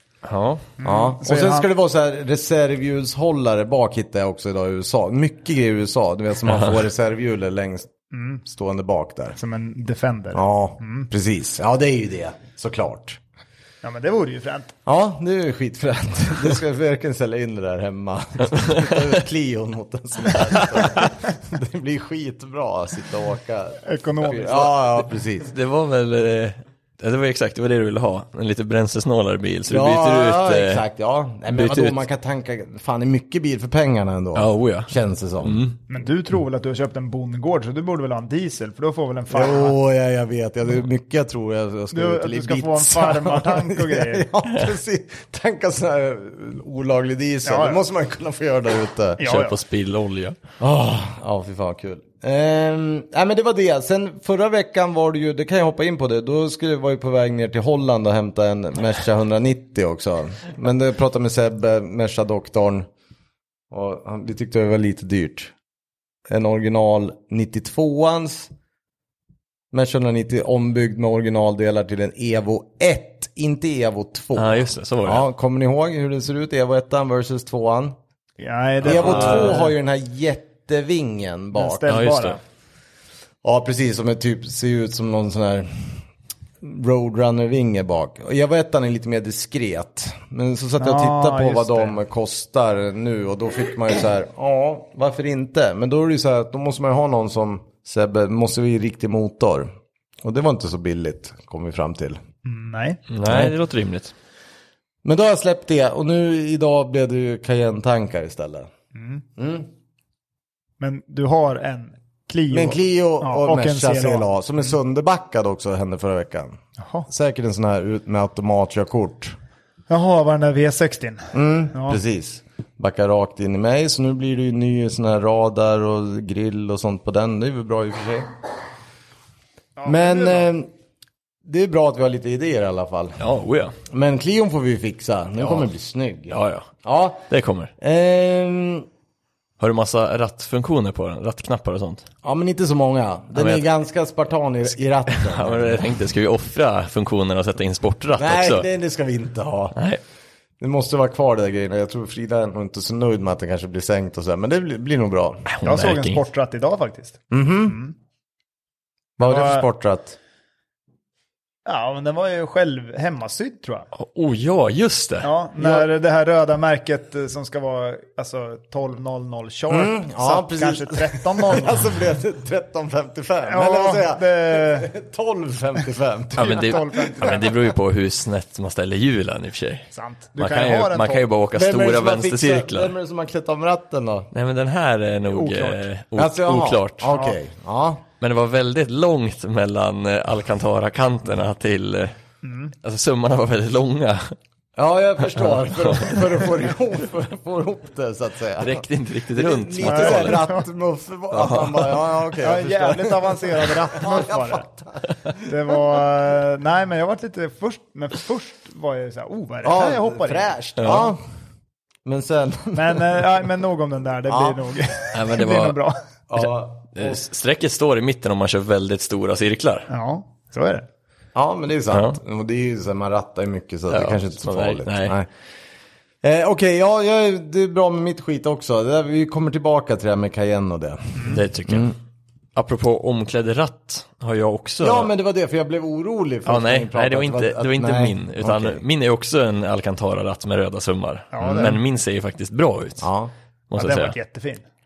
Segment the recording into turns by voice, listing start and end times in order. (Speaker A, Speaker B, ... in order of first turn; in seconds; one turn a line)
Speaker A: 0.2-0.7
Speaker B: 0.8-1.7
Speaker C: 0.8-7.9
Speaker B: 8.1-8.4
Speaker C: 8.4-9.4
Speaker B: 9.4-11.1
Speaker C: 10.3-13.2
Speaker B: 13.8-14.8
Speaker C: 14.8-25.5
Speaker B: 23.9-24.7
Speaker A: 25.4-30.8
Speaker C: 29.7-35.6
Speaker A: 31.5-32.0
Speaker A: 34.4-34.9
Speaker A: 35.4-35.8
Speaker B: 35.9-39.8
Speaker C: 39.3-49.2
Speaker B: 41.9-44.3
Speaker B: 47.4-47.8
Speaker B: 49.2-49.6
Speaker A: 49.2-50.4
Speaker C: 50.6-62.9
Speaker C: 63.7-65.5
Speaker C: 66.3-68.5
Speaker C: 69.7-78.0
Speaker A: 74.3-75.3
Speaker B: 78.4-79.7
Speaker C: 78.8-81.9
Speaker A: 78.8-79.7
Speaker B: 81.5-82.4
Speaker A: 81.9-82.4
Speaker C: 83.4-86.0
Speaker C: 86.6-99.7
Speaker B: 90.8-92.0
Speaker C: 100.2-102.2
Speaker B: 102.5-103.0
Speaker A: 103.1-104.1
Speaker C: 103.3-103.5
Speaker C: 105.0-108.7
Speaker B: 109.0-109.2
Speaker C: 109.4-109.7
Speaker B: 110.8-114.3
Speaker C: 112.5-119.4
Speaker B: 116.8-117.1
Speaker B: 119.9-122.0
Speaker C: 121.3-128.3
Speaker B: 129.8-130.5
Speaker C: 129.8-130.7
Speaker C: 131.4-133.2
Speaker A: 133.2-133.8
Speaker C: 133.9-137.2
Speaker A: 135.4-135.7
Speaker A: 136.3-136.8
Speaker A: 137.3-137.7
Speaker C: 137.8-138.9
Speaker A: 139.6-142.1
Speaker C: 142.2-145.9
Speaker A: 143.4-143.6
Speaker A: 145.1-148.7
Speaker C: 148.1-149.8
Speaker A: 149.8-150.0
Speaker C: 150.6-155.5
Speaker A: 155.5-156.2
Speaker B: 155.6-157.9
Speaker C: 157.3-157.8
Speaker C: 159.2-160.2
Speaker B: 159.2-159.7
Speaker B: 161.7-163.9
Speaker A: 163.9-165.3
Speaker B: 165.2-171.8
Speaker C: 165.6-165.9
Speaker C: 169.7-177.7
Speaker B: 173.4-174.9
Speaker B: 176.4-177.5
Speaker A: 176.4-182.9
Speaker B: 179.9-181.3
Speaker C: 181.5-184.3
Speaker A: 184.3-187.1
Speaker B: 185.3-185.8
Speaker C: 186.2-188.0
Speaker B: 187.1-187.4
Speaker A: 188.2-192.1
Speaker B: 192.4-192.8
Speaker A: 192.8-194.3
Speaker C: 194.8-205.8
Speaker A: 195.4-196.5
Speaker A: 198.6-200.5
Speaker B: 199.8-200.6
Speaker A: 201.3-202.0
Speaker B: 202.4-204.7
Speaker B: 205.4-211.0
Speaker C: 209.6-211.2
Speaker A: 210.8-211.1
Speaker C: 212.1-213.3
Speaker B: 212.8-216.0
Speaker C: 214.3-214.6
Speaker A: 215.1-215.8
Speaker C: 216.3-217.2
Speaker A: 216.9-219.9
Speaker B: 219.9-220.9
Speaker C: 221.3-225.3
Speaker A: 221.9-222.2
Speaker A: 223.9-225.2
Speaker C: 226.2-231.9
Speaker A: 231.2-231.9
Speaker A: 232.6-235.1
Speaker C: 234.8-238.8
Speaker A: 236.5-243.1
Speaker B: 241.3-241.8
Speaker C: 243.0-243.3
Speaker A: 243.7-244.2
Speaker B: 243.8-244.6